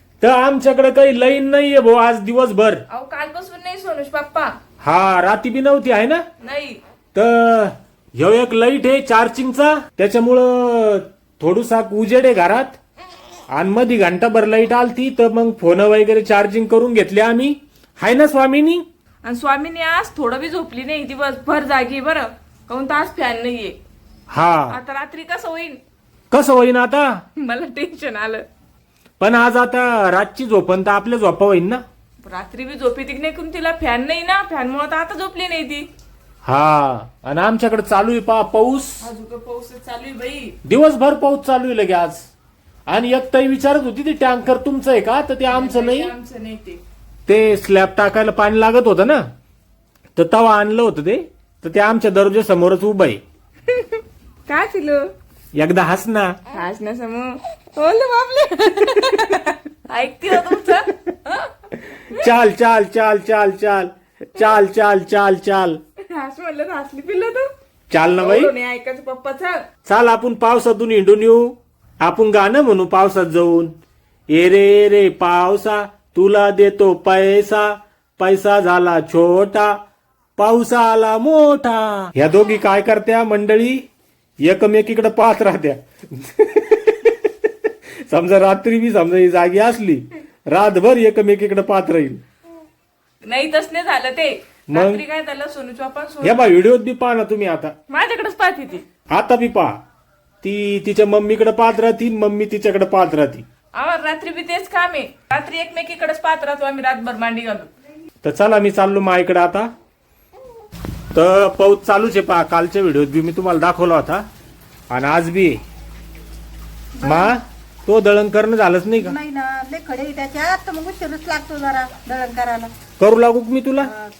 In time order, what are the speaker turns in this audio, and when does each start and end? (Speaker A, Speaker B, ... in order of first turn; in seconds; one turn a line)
Speaker A: 0.2-2.8
Speaker B: 2.9-4.5
Speaker A: 4.8-6.2
Speaker B: 6.4-6.8
Speaker A: 7.1-12.8
Speaker A: 13.5-18.8
Speaker B: 19.2-23.8
Speaker A: 24.3-24.8
Speaker B: 24.7-25.8
Speaker A: 26.3-27.2
Speaker B: 27.4-28.4
Speaker A: 29.2-31.8
Speaker B: 32.2-35.9
Speaker A: 36.4-39.0
Speaker B: 39.0-40.5
Speaker A: 40.6-42.3
Speaker A: 42.9-46.1
Speaker B: 45.5-46.8
Speaker A: 47.3-49.3
Speaker A: 50.1-53.2
Speaker B: 53.7-55.1
Speaker A: 55.5-56.4
Speaker B: 56.5-61.5
Speaker A: 61.8-65.8
Speaker B: 66.0-67.5
Speaker A: 67.9-68.5
Speaker B: 68.2-69.6
Speaker A: 69.8-73.7
Speaker A: 74.3-79.8
Speaker A: 80.4-83.8
Speaker A: 84.4-92.2
Speaker B: 93.2-96.5
Speaker A: 94.7-95.0
Speaker A: 96.2-97.7
Speaker B: 97.9-98.8
Speaker A: 99.1-99.7
Speaker A: 100.4-103.4
Speaker B: 103.7-107.7
Speaker A: 108.2-109.7
Speaker A: 111.1-114.2
Speaker A: 114.9-115.6
Speaker A: 117.0-119.1
Speaker C: 119.0-122.7
Speaker A: 123.0-123.9